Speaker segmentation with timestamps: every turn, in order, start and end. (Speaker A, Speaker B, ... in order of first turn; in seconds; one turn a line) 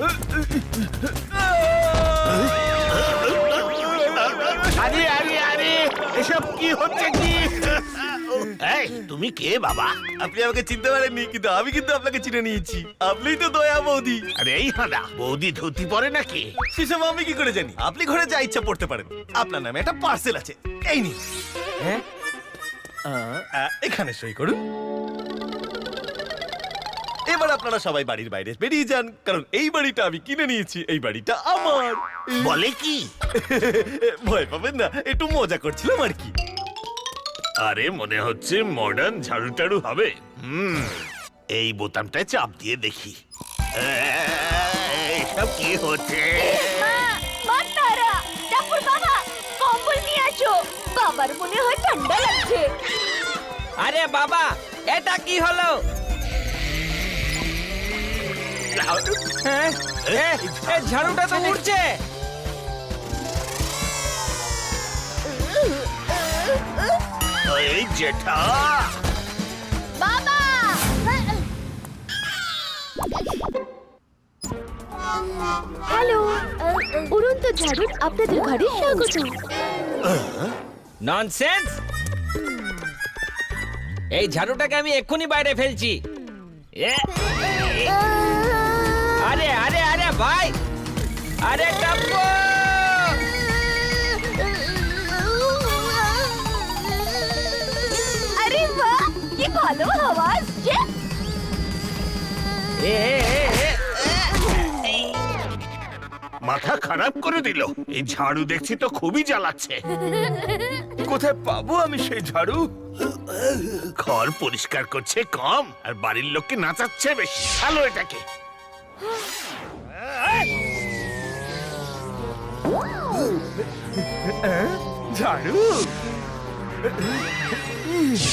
Speaker A: 2.3-9.9
Speaker B: 10.2-14.2
Speaker A: 14.3-16.5
Speaker B: 16.7-21.2
Speaker B: 23.1-24.6
Speaker B: 27.3-32.6
Speaker A: 32.4-33.0
Speaker B: 33.4-36.3
Speaker A: 37.6-43.1
Speaker A: 43.8-46.8
Speaker C: 46.6-52.7
Speaker D: 53.8-55.8
Speaker A: 58.7-59.3
Speaker D: 59.4-62.0
Speaker A: 60.1-61.6
Speaker A: 67.5-68.9
Speaker C: 70.0-70.8
Speaker C: 75.9-76.5
Speaker C: 77.0-79.3
Speaker A: 80.1-80.5
Speaker D: 81.0-81.8
Speaker D: 84.1-86.0
Speaker D: 86.8-87.9
Speaker D: 89.2-90.5
Speaker D: 91.4-93.2
Speaker C: 95.1-96.0
Speaker C: 98.3-100.8
Speaker D: 102.8-103.7
Speaker A: 103.1-103.5
Speaker A: 106.4-109.8
Speaker E: 111.0-112.7
Speaker A: 113.6-118.2
Speaker E: 124.3-125.9